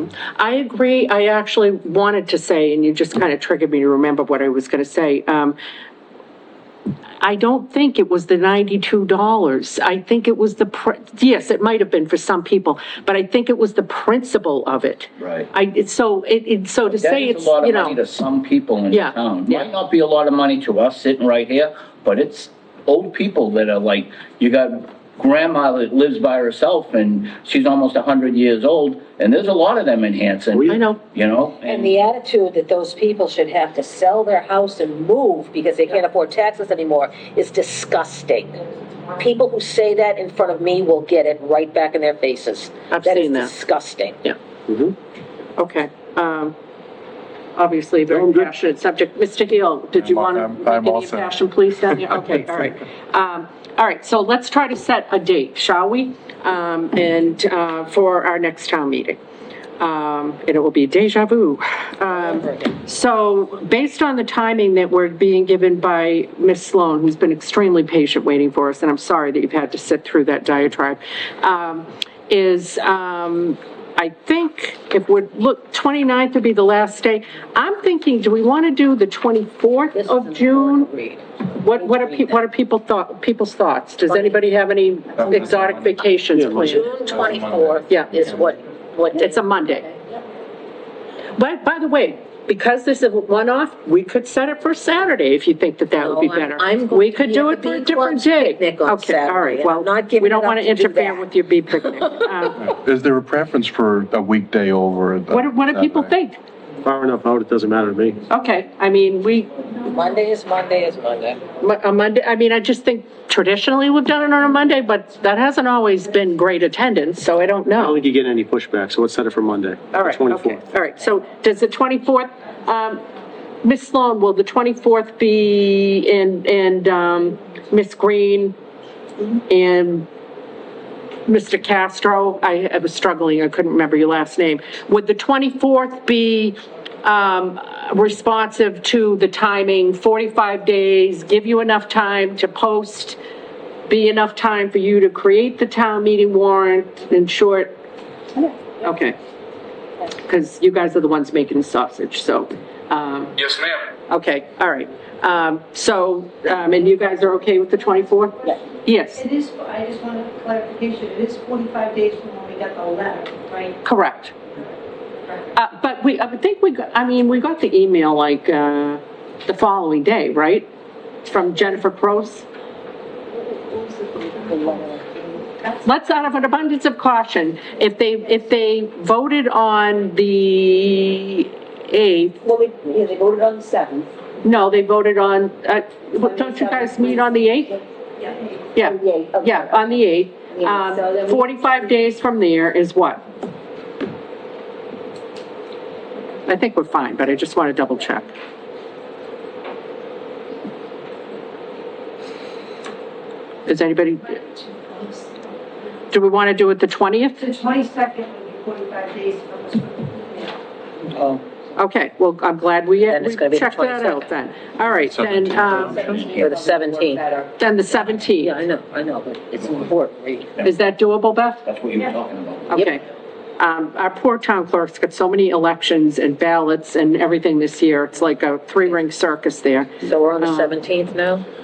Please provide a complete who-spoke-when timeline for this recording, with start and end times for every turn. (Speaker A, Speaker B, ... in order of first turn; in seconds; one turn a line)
Speaker A: 0.4-5.6
Speaker A: 7.2-18.0
Speaker B: 15.2-15.5
Speaker B: 16.9-32.0
Speaker A: 18.9-19.6
Speaker C: 30.5-30.8
Speaker A: 30.6-31.0
Speaker D: 31.6-38.6
Speaker D: 39.1-44.2
Speaker A: 42.9-43.5
Speaker A: 45.6-46.5
Speaker A: 47.5-59.2
Speaker C: 48.1-48.5
Speaker E: 49.9-52.4
Speaker A: 59.8-80.9
Speaker D: 62.1-62.7
Speaker D: 79.9-82.3
Speaker A: 81.6-86.9
Speaker E: 85.2-86.0
Speaker C: 86.3-86.7
Speaker D: 86.5-90.2
Speaker E: 86.7-88.6
Speaker A: 87.9-88.1
Speaker A: 89.1-89.9
Speaker A: 91.3-102.6
Speaker D: 96.0-101.2
Speaker E: 102.6-106.1
Speaker A: 105.3-106.4
Speaker C: 106.8-108.2
Speaker A: 108.3-109.7
Speaker D: 109.8-111.4
Speaker A: 111.6-118.0
Speaker C: 117.8-120.6
Speaker A: 119.9-123.0
Speaker A: 123.6-128.6
Speaker A: 129.3-130.1
Speaker A: 131.2-143.2
Speaker A: 143.9-147.7
Speaker A: 148.8-149.2
Speaker A: 150.2-159.2
Speaker F: 159.1-163.8
Speaker A: 163.8-164.3
Speaker A: 165.5-170.7
Speaker A: 171.3-172.5
Speaker F: 173.7-175.8
Speaker D: 174.3-175.0
Speaker A: 175.8-182.4
Speaker D: 182.4-184.1
Speaker A: 184.4-187.8
Speaker D: 186.2-187.4
Speaker A: 188.7-193.2
Speaker D: 188.8-189.9
Speaker D: 190.5-191.7
Speaker A: 196.4-198.3
Speaker A: 203.7-204.4
Speaker F: 204.8-205.4
Speaker A: 206.1-207.5
Speaker F: 207.4-210.5
Speaker A: 211.8-216.1
Speaker D: 213.1-214.2
Speaker E: 215.0-216.5
Speaker D: 215.7-217.2
Speaker F: 216.4-217.4
Speaker A: 217.6-218.5
Speaker D: 217.9-220.5
Speaker A: 220.6-221.6
Speaker B: 221.6-222.7
Speaker A: 222.7-223.0
Speaker A: 223.6-230.7
Speaker D: 230.0-231.4